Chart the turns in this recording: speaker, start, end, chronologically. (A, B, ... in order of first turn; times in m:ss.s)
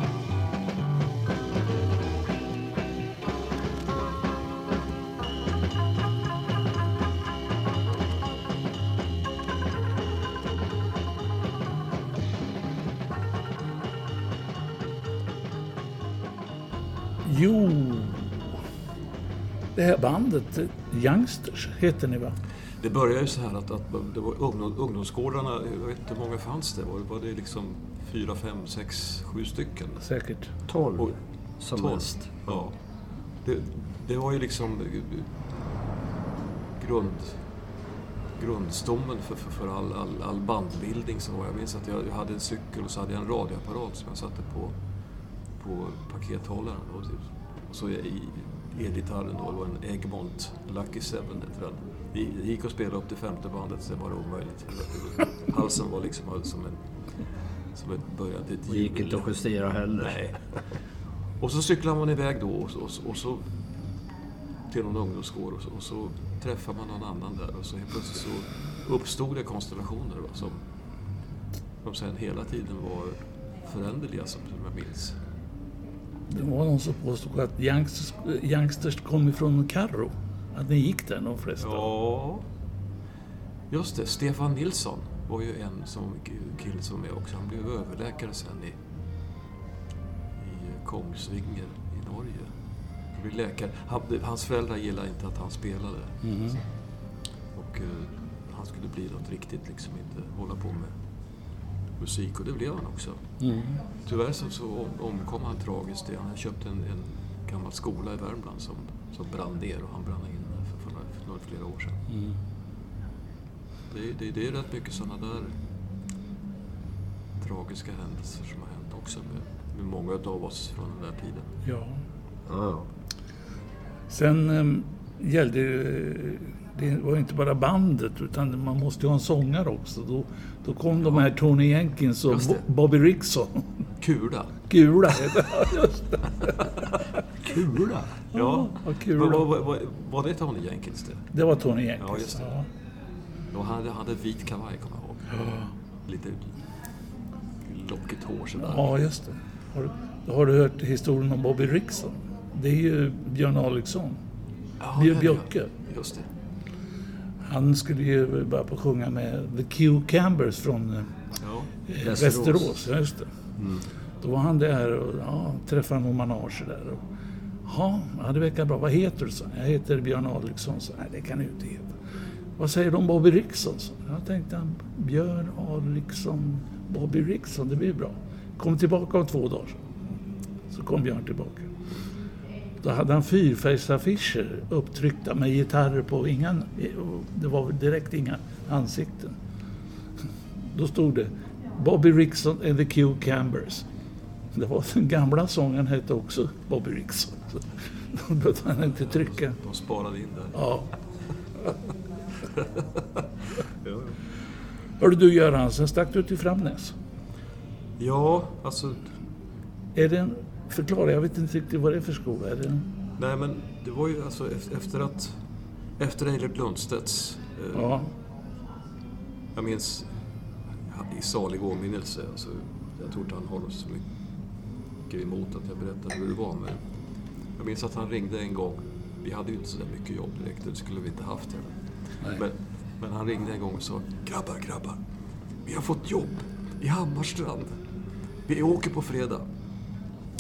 0:17.2-0:18.6 A
0:19.8-0:22.4 A
0:22.8-0:30.1 B
0:30.0-0:30.5 A
0:30.7-0:32.5 C
0:31.7-0:32.8 B
0:33.4-0:35.5 B
0:36.8-0:37.4 B
0:38.4-0:44.8 B
0:45.6-0:56.8 B
0:57.7-0:59.3 B
0:58.7-1:00.2 C
1:00.0-1:00.4 B
1:01.4-1:03.5 B
1:04.7-1:10.6 B
1:11.8-1:15.2 B
1:16.3-1:21.9 A
1:21.6-1:22.5 B
1:23.7-1:28.8 B
1:30.4-1:32.5 B
1:33.1-1:36.6 B
1:36.2-1:36.6 A
1:37.6-1:40.9 B
1:42.0-1:43.2 B
1:43.4-1:43.8 A
1:44.1-1:52.0 B
1:52.1-1:52.4 A
1:53.9-1:55.6 B
1:57.4-2:01.5 B
2:01.6-2:02.0 A
2:02.5-2:02.9 C
2:04.1-2:13.8 A
2:12.3-2:12.6 B
2:14.0-2:14.6 B
2:14.7-2:16.5 A
2:17.5-2:18.0 C
2:17.5-2:19.5 A
2:18.3-2:21.3 B
2:21.3-2:22.7 A
2:22.0-2:22.6 B
2:23.5-2:25.4 B
2:25.4-2:25.7 A
2:26.1-2:26.5 B
2:27.6-2:28.9 B
2:28.6-2:34.2 A
2:34.8-2:36.3 B
2:35.0-2:35.7 A
2:37.4-2:41.1 A
2:41.4-2:41.7 B
2:41.9-2:43.4 A
2:42.0-2:42.7 C
2:44.2-2:47.0 A
2:47.6-2:52.0 A
2:52.6-2:59.8 A
3:00.7-3:01.7 A
3:02.8-3:09.4 A
3:10.7-3:13.9 A
3:14.5-3:19.6 A
3:19.6-3:20.7 B
3:20.6-3:20.9 A
3:22.6-3:23.2 B
3:23.8-3:24.2 B
3:25.0-3:27.0 A
3:28.0-3:29.1 B
3:30.0-3:32.9 A
3:33.2-3:35.4 B
3:36.0-3:38.0 B
3:37.8-3:38.1 A
3:39.6-3:40.1 B
3:40.9-3:44.0 B
3:45.1-3:46.8 B
3:47.6-3:55.0 B
3:55.6-3:57.8 B
3:58.5-3:59.5 B